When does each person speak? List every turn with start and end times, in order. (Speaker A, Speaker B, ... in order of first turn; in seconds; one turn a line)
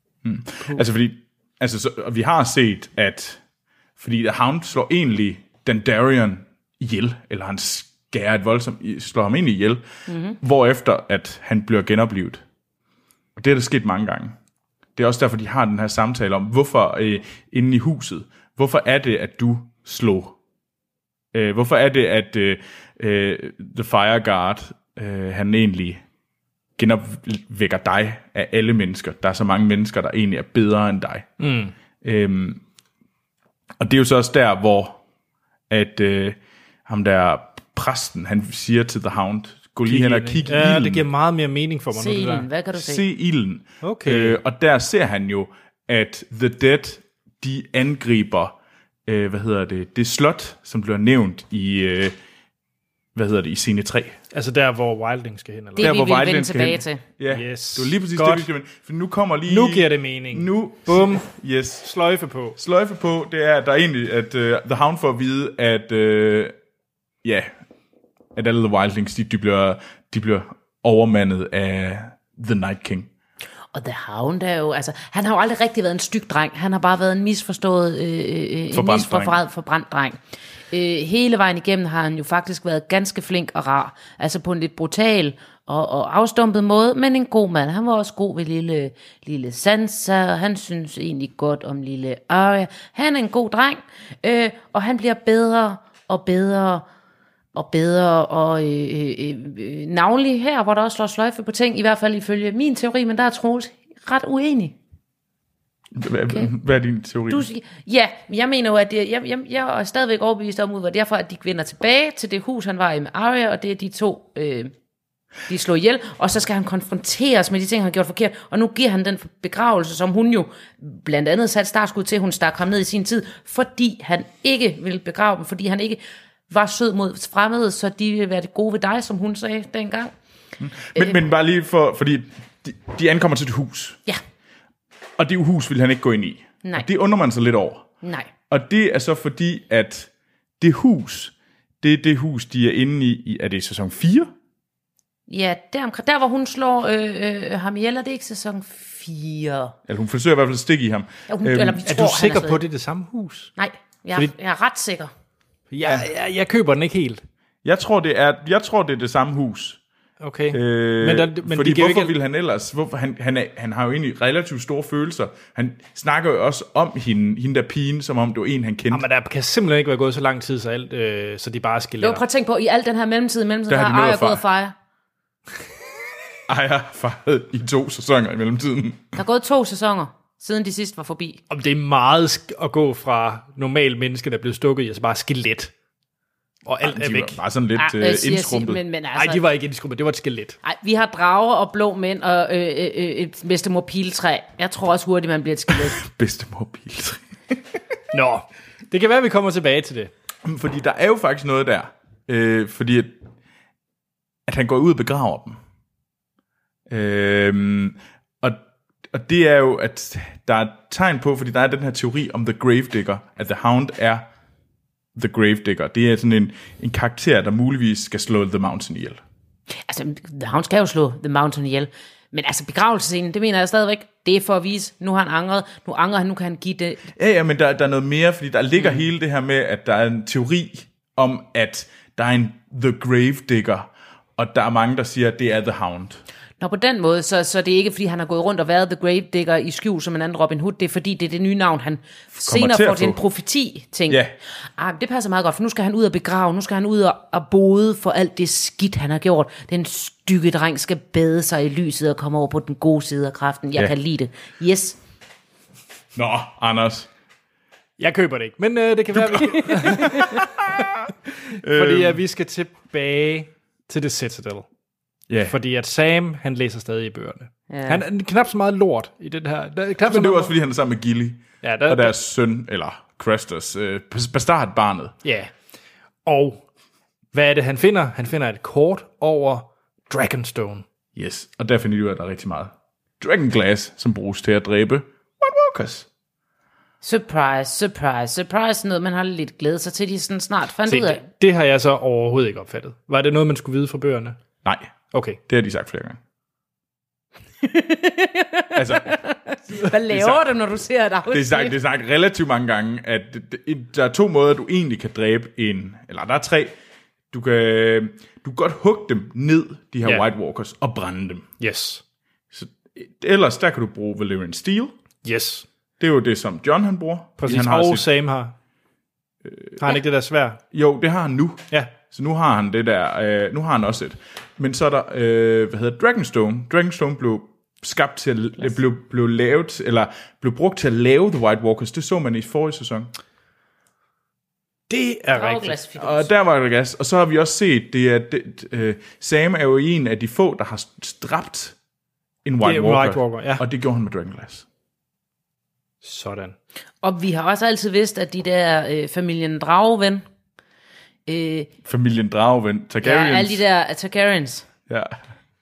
Speaker A: 0.2-3.4
Speaker A: 4.0-9.8
Speaker B: 10.1-10.4
Speaker A: 10.4-12.4
Speaker A: 13.3-14.3
Speaker A: 14.9-20.4
Speaker A: 21.3-26.0
Speaker A: 26.8-31.3
Speaker C: 31.4-31.7
Speaker A: 32.0-32.6
Speaker A: 33.8-35.0
Speaker A: 35.7-41.1
Speaker C: 39.9-42.5
Speaker B: 41.9-43.0
Speaker A: 42.7-48.5
Speaker C: 43.8-44.4
Speaker A: 49.0-52.1
Speaker A: 53.1-54.2
Speaker C: 54.3-55.9
Speaker B: 55.8-57.0
Speaker A: 55.8-61.9
Speaker C: 57.3-58.5
Speaker C: 59.5-61.3
Speaker C: 61.8-62.5
Speaker A: 62.5-66.5
Speaker A: 67.2-67.5
Speaker A: 68.3-73.1
Speaker B: 73.7-80.2
Speaker A: 78.7-79.4
Speaker B: 80.7-96.8
Speaker B: 97.5-104.8
Speaker A: 105.9-107.5
Speaker B: 107.3-114.7
Speaker B: 115.5-130.1
Speaker A: 130.6-134.0
Speaker A: 135.2-137.9
Speaker B: 138.0-138.3
Speaker A: 138.5-144.3
Speaker B: 145.3-149.7
Speaker A: 149.9-151.9
Speaker B: 151.3-152.6
Speaker C: 151.8-153.5
Speaker B: 153.6-155.1
Speaker C: 155.7-157.2
Speaker A: 157.6-159.8
Speaker C: 160.2-162.1
Speaker A: 160.5-169.0
Speaker C: 168.9-172.2
Speaker B: 172.0-174.7
Speaker A: 173.7-174.4
Speaker A: 176.5-179.1
Speaker B: 179.1-181.4
Speaker C: 181.5-185.7
Speaker C: 186.6-187.4
Speaker A: 186.8-188.8
Speaker B: 187.8-189.4
Speaker C: 189.1-190.6
Speaker B: 190.6-196.0
Speaker A: 196.0-197.8
Speaker C: 198.1-200.1
Speaker A: 200.4-203.2
Speaker A: 204.5-205.6
Speaker A: 206.9-214.3
Speaker A: 215.1-219.2
Speaker B: 219.8-227.1
Speaker A: 227.1-236.2
Speaker B: 236.6-244.2
Speaker A: 242.3-243.2
Speaker B: 244.8-255.0
Speaker A: 256.1-257.1
Speaker C: 258.0-260.9
Speaker A: 259.1-262.2
Speaker B: 259.4-260.4
Speaker C: 261.5-264.6
Speaker A: 265.3-265.6
Speaker C: 265.5-270.5
Speaker B: 267.7-268.0
Speaker A: 270.0-275.1
Speaker C: 271.6-272.1
Speaker C: 275.2-275.5
Speaker C: 276.2-276.6
Speaker C: 277.3-280.9
Speaker A: 281.1-286.1
Speaker B: 287.0-291.2
Speaker C: 290.9-294.4
Speaker A: 294.6-294.9
Speaker C: 295.1-295.4
Speaker A: 295.5-296.2
Speaker B: 297.6-301.8
Speaker A: 298.7-299.2
Speaker A: 299.8-300.4
Speaker A: 301.3-306.7
Speaker A: 307.3-311.5
Speaker C: 311.6-312.0
Speaker A: 312.5-314.9
Speaker C: 315.2-315.6
Speaker A: 316.0-318.1
Speaker C: 317.4-318.5
Speaker A: 319.5-319.7
Speaker C: 319.8-320.6
Speaker A: 320.7-333.1
Speaker C: 334.9-335.8
Speaker B: 335.3-336.3
Speaker A: 336.0-341.7
Speaker A: 342.4-344.6
Speaker C: 342.6-343.6
Speaker C: 346.0-346.6
Speaker B: 347.0-350.2
Speaker B: 351.3-351.7
Speaker A: 351.8-353.6
Speaker B: 353.0-354.6
Speaker A: 354.9-355.1